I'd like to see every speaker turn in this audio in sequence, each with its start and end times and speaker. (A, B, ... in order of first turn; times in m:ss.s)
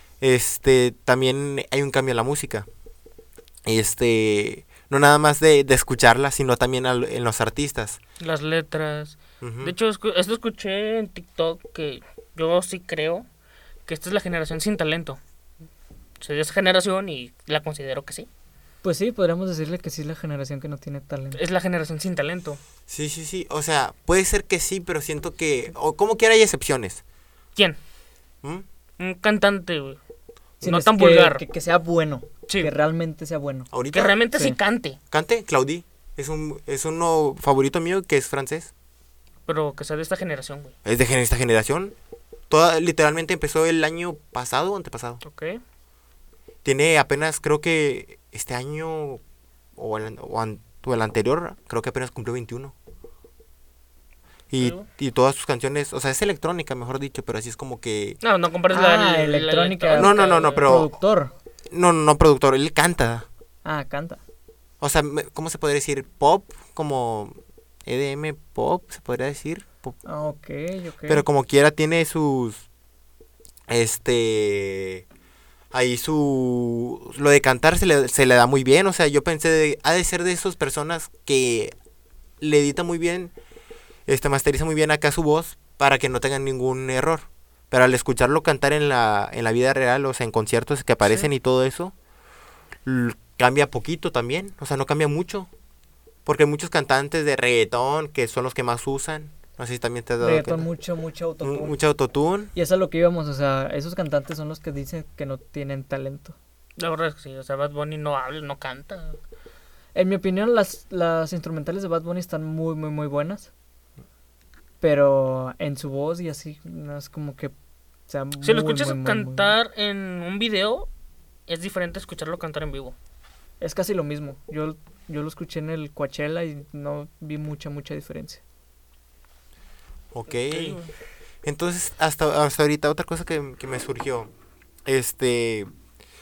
0:00.2-0:02.7 A
0:03.6-0:08.0 A
0:08.2-0:13.2 B
0:09.4-0:09.7 A
0:13.9-0:15.2 B
0:16.2-0:18.3 B
0:18.8-0:21.4 C
0:21.3-0:22.6 B
0:22.9-0:27.0 A
0:29.0-0:30.0 B
0:30.6-0:31.4 B
0:30.6-0:33.7 C
0:33.7-0:34.2 A
0:33.9-0:35.0 B
0:35.1-0:38.7 A
0:39.5-0:40.7 B
0:40.8-0:41.9 A
0:42.5-0:45.2 A
0:45.2-0:45.6 B
0:46.6-0:49.2 A
0:49.8-0:52.7 A
0:54.5-0:58.2 A
0:54.6-0:54.9 B
0:58.2-1:00.8 B
0:58.7-1:01.3 C
0:59.9-1:00.9 A
1:01.7-1:03.2 A
1:03.6-1:04.2 C
1:04.8-1:10.0 A
1:10.0-1:11.2 C
1:11.1-1:12.6 A
1:13.7-1:15.0 A
1:15.7-1:21.7 A
1:22.4-1:23.3 A
1:24.1-1:31.9 A
1:32.8-1:35.5 A
1:36.2-1:40.6 A
1:40.2-1:41.7 C
1:41.4-1:42.5 A
1:42.5-1:46.4 C
1:46.8-1:49.2 B
1:49.9-1:53.5 C
1:54.8-1:57.5 C
1:58.1-1:59.6 C
1:58.4-2:00.9 B
2:01.5-2:02.9 B
2:03.6-2:08.4 C
2:10.1-2:10.8 A
2:10.4-2:10.9 B
2:11.4-2:14.3 A
2:14.8-2:15.7 A